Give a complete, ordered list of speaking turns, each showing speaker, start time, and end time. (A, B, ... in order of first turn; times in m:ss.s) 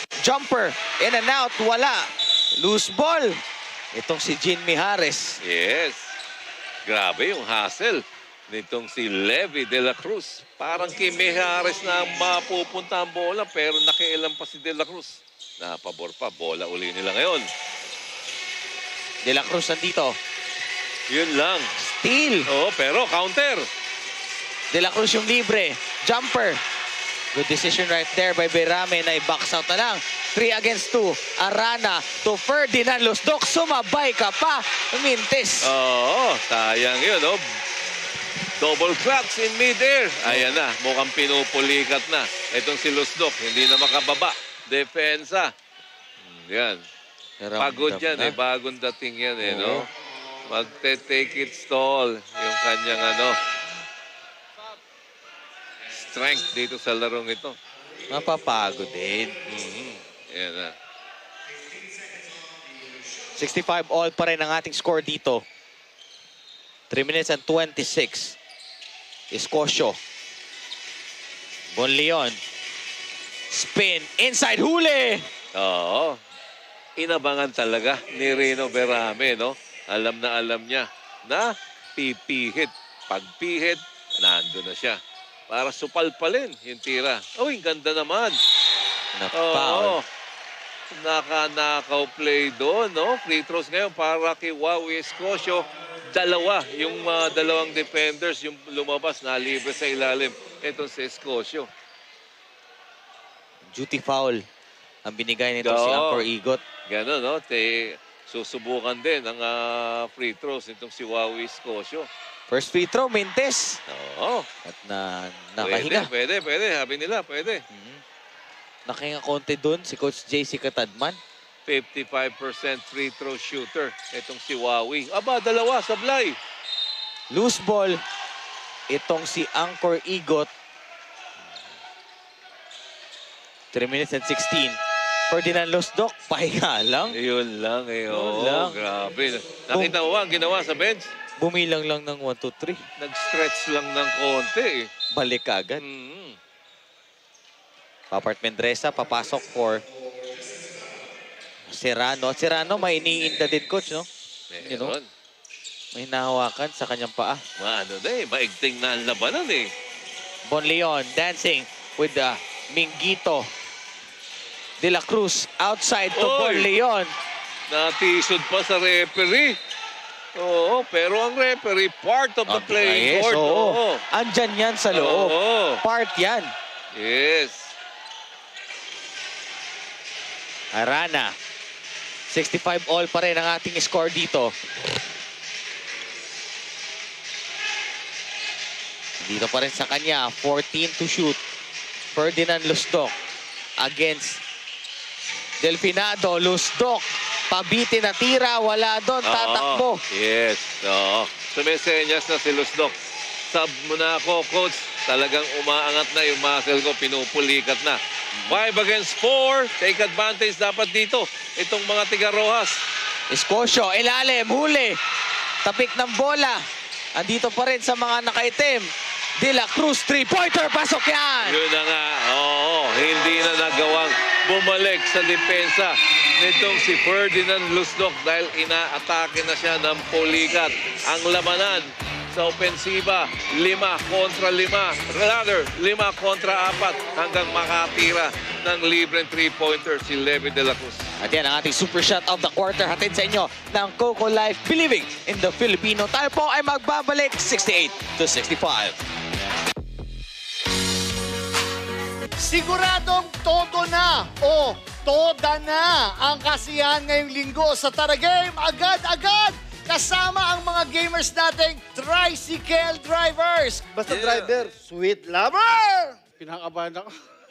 0:00.2-0:03.4 A
0:03.9-0:05.4 A
0:05.4-0:06.1 B
0:06.9-0:17.5 B
0:19.2-0:20.2 A
0:21.1-0:21.7 B
0:21.8-0:22.5 A
0:22.5-0:23.7 B
0:24.7-0:26.6 A
0:27.3-0:35.7 A
0:35.6-0:37.4 B
0:38.6-0:45.5 B
0:40.3-0:40.5 A
0:46.2-0:46.8 B
0:47.4-0:48.4 A
0:47.6-0:49.9 B
0:49.4-0:49.9 A
0:50.5-0:53.4 B
0:55.9-0:57.6 B
0:58.1-0:59.4 A
0:59.5-1:00.8 B
1:03.4-1:05.4 A
1:06.9-1:08.4 A
1:09.3-1:10.0 A
1:11.7-1:12.4 A
1:13.5-1:15.3 A
1:15.6-1:16.2 B
1:17.0-1:28.4 B
1:29.1-1:30.0 A
1:29.3-1:30.1 B
1:30.9-1:41.7 B
1:43.7-1:44.4 A
1:45.0-1:46.6 A
1:45.6-1:46.3 B
1:46.9-1:52.1 B
1:52.5-1:53.8 A
1:53.9-1:54.5 B
1:54.6-1:56.1 A
1:55.6-1:57.6 B
1:57.7-1:58.0 A
1:58.9-2:01.2 A
2:01.7-2:06.4 B
2:07.3-2:08.0 A
2:08.9-2:10.5 A
2:13.7-2:14.8 A
2:15.3-2:17.2 A
2:17.1-2:21.1 B
2:18.1-2:18.7 A
2:19.7-2:20.0 A
2:21.4-2:22.8 A
2:23.0-2:24.9 B
2:25.1-2:25.8 A
2:25.8-2:26.4 B
2:28.1-2:29.8 A
2:31.7-2:34.1 A
2:34.5-2:35.1 B
2:34.6-2:35.0 A
2:35.9-2:37.4 A
2:37.6-2:39.7 B
2:40.5-2:43.5 A
2:44.8-2:47.1 A
2:46.2-2:46.7 B
2:47.7-2:49.6 B
2:50.4-2:54.0 B
2:52.5-2:56.5 A
2:54.9-2:55.8 B
2:56.9-2:57.7 B
3:00.7-3:01.3 A
3:02.3-3:04.5 A
3:09.2-3:11.4 A
3:12.1-3:13.1 A
3:13.8-3:14.4 A
3:15.6-3:20.0 A
3:19.2-3:22.9 B
3:23.5-3:32.8 B
3:33.3-3:35.0 A
3:35.6-3:36.6 A
3:37.2-3:41.6 A
3:41.4-4:01.1 B
4:01.2-4:09.0 A
4:12.4-4:26.2 C
4:24.1-4:24.5 B